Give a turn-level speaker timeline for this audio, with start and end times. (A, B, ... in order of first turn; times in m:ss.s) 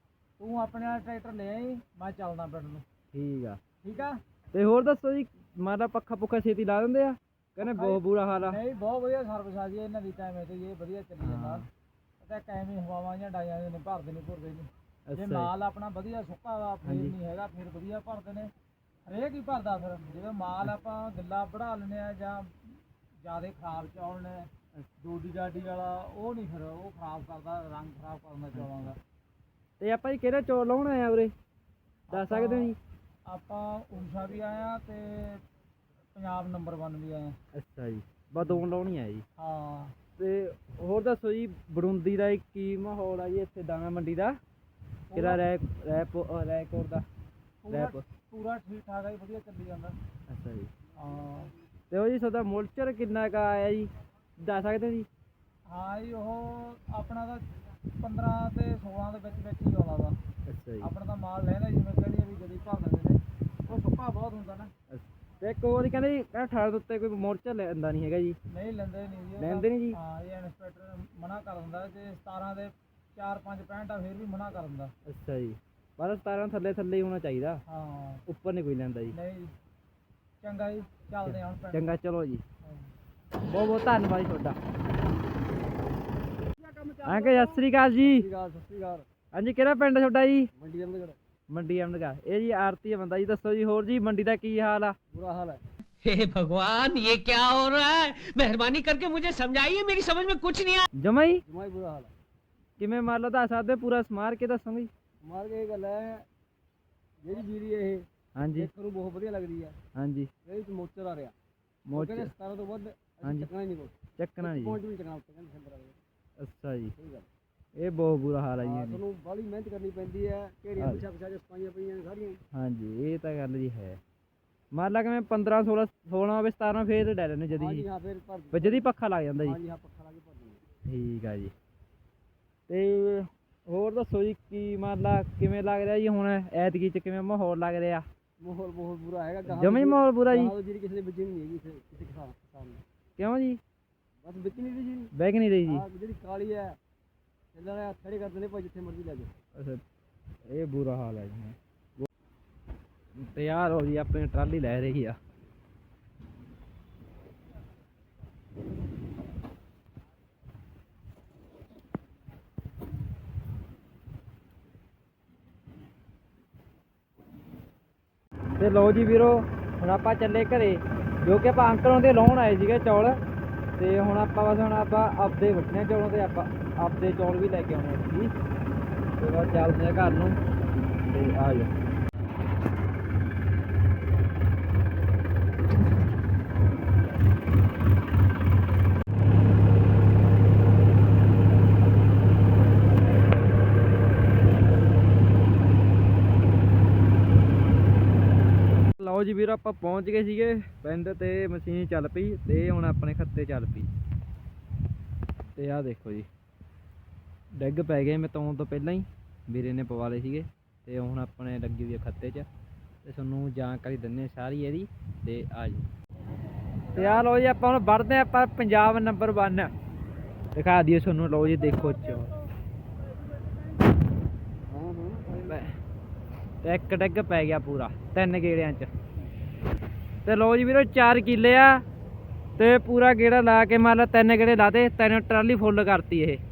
0:00.4-0:02.8 A
0:03.1-0:03.6 B
0:03.8-0:04.2 A
0:04.5-0:08.6 B
0:07.6-0:11.6 A
0:11.2-0:11.7 B
0:12.2-0:18.5 A
0:15.1-0:15.5 B
0:16.8-0:17.1 B
0:19.1-0:22.5 A
0:23.2-0:24.5 A
0:25.0-0:29.0 A
0:28.5-0:28.9 B
0:29.8-0:31.3 B
0:32.1-0:32.7 A
0:32.1-0:32.8 B
0:33.3-0:35.4 A
0:36.1-0:37.4 A
0:37.5-0:39.2 B
0:39.4-0:40.0 A
0:40.2-0:44.4 B
0:45.1-0:45.4 A
0:45.1-0:47.0 B
0:47.6-0:50.0 A
0:47.7-0:48.0 B
0:50.3-0:50.7 B
0:51.0-0:51.5 A
0:51.9-0:53.9 B
0:54.4-0:55.1 B
0:55.7-0:57.4 A
0:58.0-1:00.2 A
1:00.4-1:00.9 B
1:00.8-1:04.7 A
1:04.9-1:08.4 B
1:08.5-1:14.9 A
1:09.4-1:10.0 B
1:15.1-1:17.6 B
1:17.7-1:18.2 A
1:18.3-1:19.1 B
1:19.1-1:19.5 A
1:20.4-1:21.8 A
1:21.2-1:22.4 B
1:23.5-1:24.6 B
1:27.0-1:28.2 B
1:27.1-1:27.5 A
1:28.0-1:29.0 C
1:29.3-1:30.5 B
1:30.6-1:31.2 C
1:31.5-1:35.0 B
1:35.1-1:35.6 C
1:36.0-1:40.8 D
1:41.0-1:41.4 B
1:41.4-1:42.1 C
1:42.8-1:44.9 B
1:45.2-1:46.2 C
1:47.2-1:49.8 C
1:48.4-1:48.7 B
1:49.9-1:50.3 B
1:50.4-1:51.3 C
1:51.9-1:52.3 B
1:51.9-1:56.0 C
1:53.2-1:53.5 B
1:54.2-1:54.8 B
1:56.4-1:56.9 B
1:57.0-1:57.3 C
1:57.8-1:59.0 B
1:58.6-2:02.4 C
2:02.5-2:04.0 B
2:04.7-2:07.8 B
2:07.5-2:08.9 C
2:08.5-2:09.6 B
2:09.4-2:10.6 C
2:10.8-2:11.5 B
2:12.7-2:18.0 B
2:18.4-2:22.8 C
2:19.4-2:20.5 B
2:23.2-2:23.6 B
2:24.2-2:25.1 C
2:25.1-2:25.8 B
2:25.6-2:26.8 C
2:27.5-2:29.3 C
2:29.5-2:29.8 B
2:30.5-2:32.1 B
2:33.2-2:35.2 B
2:48.6-2:53.2 B
2:53.8-2:58.3 B
2:59.2-3:00.4 B
3:01.0-3:01.7 B
3:19.0-3:23.9 B
3:25.6-3:26.3 B
3:27.6-3:32.5 B
3:33.0-3:35.8 B
3:36.9-3:39.7 B
3:40.5-3:42.3 B
3:44.7-3:45.6 C
3:45.5-3:45.7 B
3:46.6-3:48.9 B
3:50.2-3:51.8 B
3:52.6-3:56.4 B